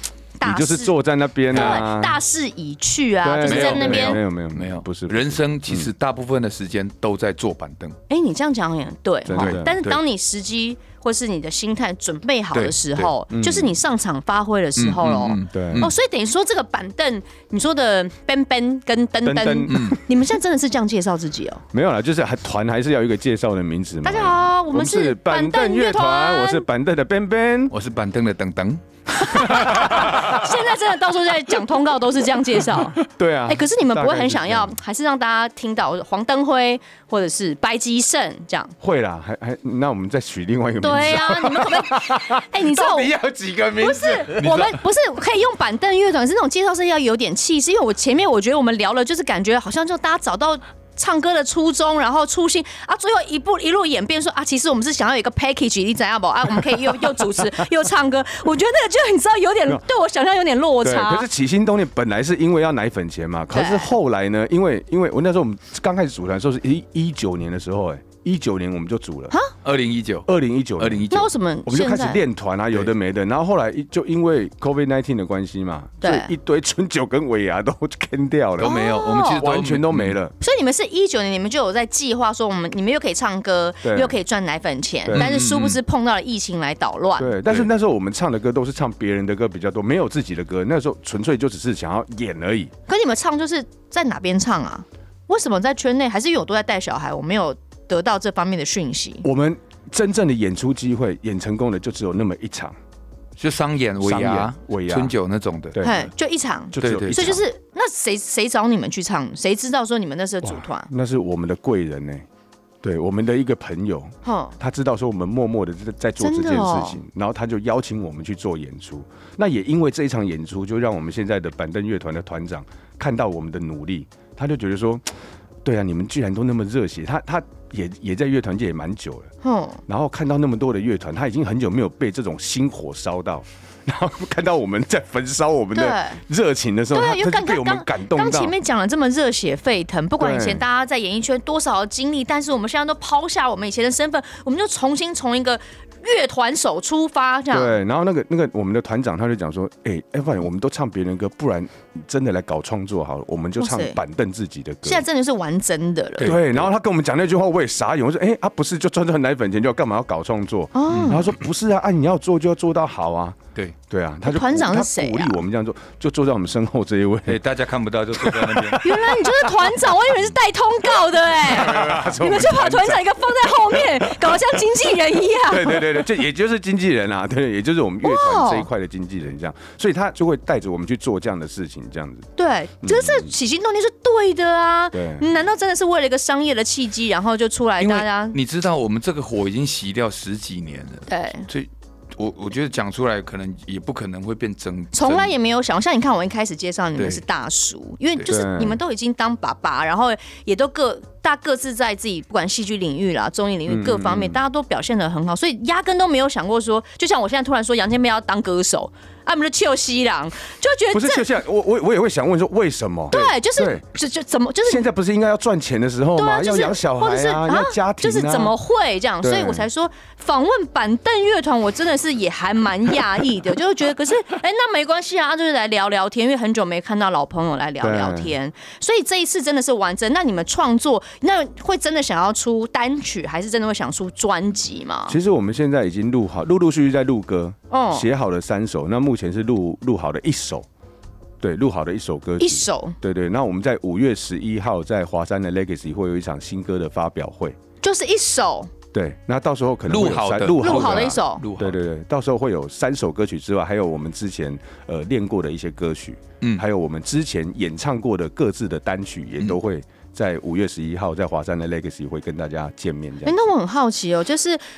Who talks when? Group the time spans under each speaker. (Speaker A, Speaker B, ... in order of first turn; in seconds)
Speaker A: 0.4-0.9, 1.5-4.2, 8.1-21.6, 24.0-26.6, 29.2-38.7, 40.8-43.1, 43.8-61.3, 63.5-63.9, 71.1-72.2, 76.0-76.3, 78.6-79.4, 80.4-87.3, 92.9-99.2, 105.8-110.9, 114.2-114.5, 116.2-117.0, 129.4-129.8, 135.7-136.2, 136.9-147.8, 153.6-154.0, 154.8-156.3, 160.7-161.3, 164.2-165.4, 168.8-175.9, 178.0-178.7, 182.4-188.4, 191.1-191.5, 194.9-211.2, 213.1-214.8, 216.2-235.2, 237.7-238.1, 242.4-242.9, 247.8-248.7, 250.6-251.4, 263.2-264.6
Speaker B: 0.4-2.2, 3.2-5.9, 9.3-9.8, 13.3-13.8, 15.5-15.9, 19.2-20.0, 21.7-27.7, 29.5-30.3, 33.0-34.7, 38.8-44.7, 60.8-69.3, 70.3-71.1, 71.7-78.7, 79.3-80.3, 83.8-84.2, 85.0-85.3, 87.2-92.7, 99.2-102.8, 104.0-105.1, 105.7-106.1, 106.7-107.4, 110.4-112.2, 112.8-125.1, 125.6-129.3, 129.9-138.5, 140.2-140.6, 147.5-155.0, 156.2-167.4, 168.1-169.7, 171.4-173.1, 173.7-174.4, 175.4-182.3, 182.8-183.3, 184.9-185.2, 198.2-198.8, 203.7-204.4, 210.9-213.8, 214.7-218.5, 219.2-219.7, 227.8-228.3, 235.1-240.7, 241.4-247.6, 248.9-263.4
Speaker C: 1.5-1.8, 3.4-8.0, 9.3-10.0, 12.5-13.1, 14.8-15.9, 19.7-20.0, 27.7-30.2, 44.4-44.7, 69.6-71.3, 78.6-80.2, 85.1-85.8, 103.4-106.0, 106.8-107.4, 156.2-156.7, 160.9-161.2, 167.3-168.8, 187.8-195.3, 197.0-197.2, 249.9-251.8